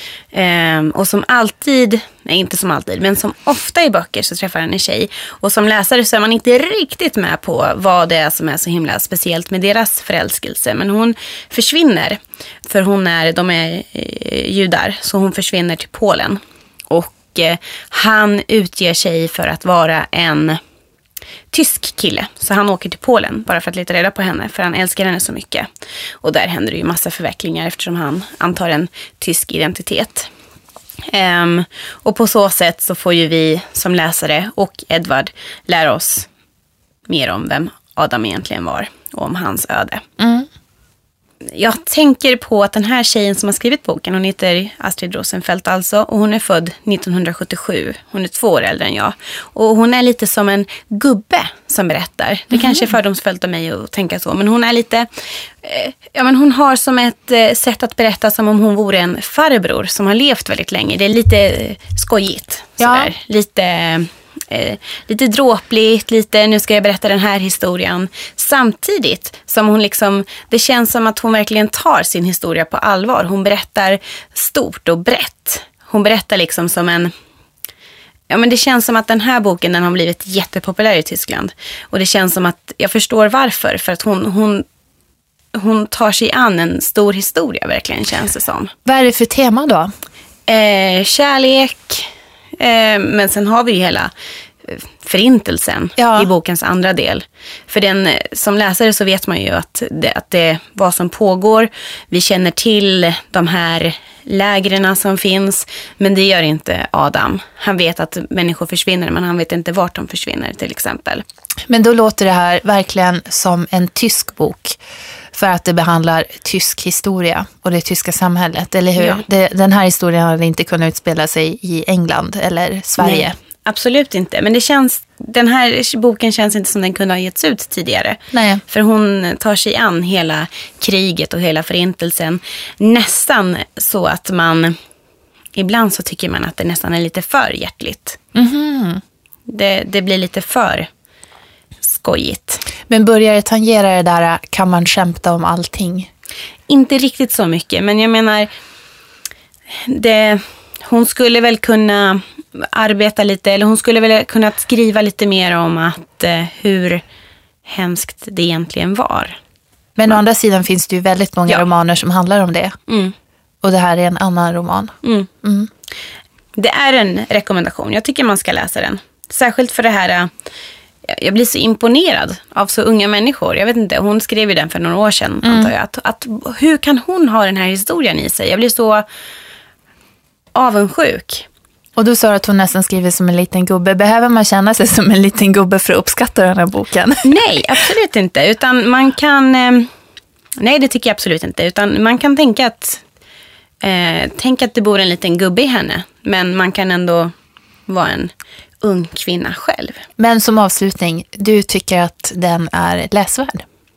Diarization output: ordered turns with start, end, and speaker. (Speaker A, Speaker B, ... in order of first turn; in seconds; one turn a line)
Speaker A: 0.3-20.6
Speaker A: 21.5-25.7
Speaker A: 26.2-30.3
Speaker A: 31.1-36.3
Speaker A: 37.1-40.0
Speaker B: 40.2-40.5
Speaker A: 41.4-77.1
Speaker B: 52.5-52.8
Speaker B: 62.8-63.1
Speaker A: 78.3-84.7
Speaker A: 85.5-88.7
Speaker B: 88.8-89.9
Speaker A: 90.5-94.1
Speaker A: 94.6-111.2
Speaker B: 96.0-96.3
Speaker B: 111.7-114.8
Speaker B: 115.3-123.3
Speaker A: 119.0-119.2
Speaker A: 123.0-134.8
Speaker B: 128.3-128.6
Speaker A: 135.5-138.2
Speaker B: 138.3-139.0
Speaker A: 139.5-140.9
Speaker A: 141.8-142.6
Speaker B: 142.9-146.1
Speaker A: 146.7-148.5
Speaker A: 149.7-157.0
Speaker A: 157.7-159.4
Speaker B: 160.0-162.8
Speaker A: 162.9-163.1
Speaker B: 163.6-165.7
Speaker A: 165.0-165.3
Speaker A: 166.6-170.3
Speaker A: 171.1-179.1
Speaker B: 175.4-175.7
Speaker A: 180.5-181.5
Speaker B: 182.0-187.6
Speaker A: 187.2-189.9
Speaker A: 190.6-193.0
Speaker A: 193.8-197.3
Speaker A: 197.9-200.0
Speaker B: 200.2-203.6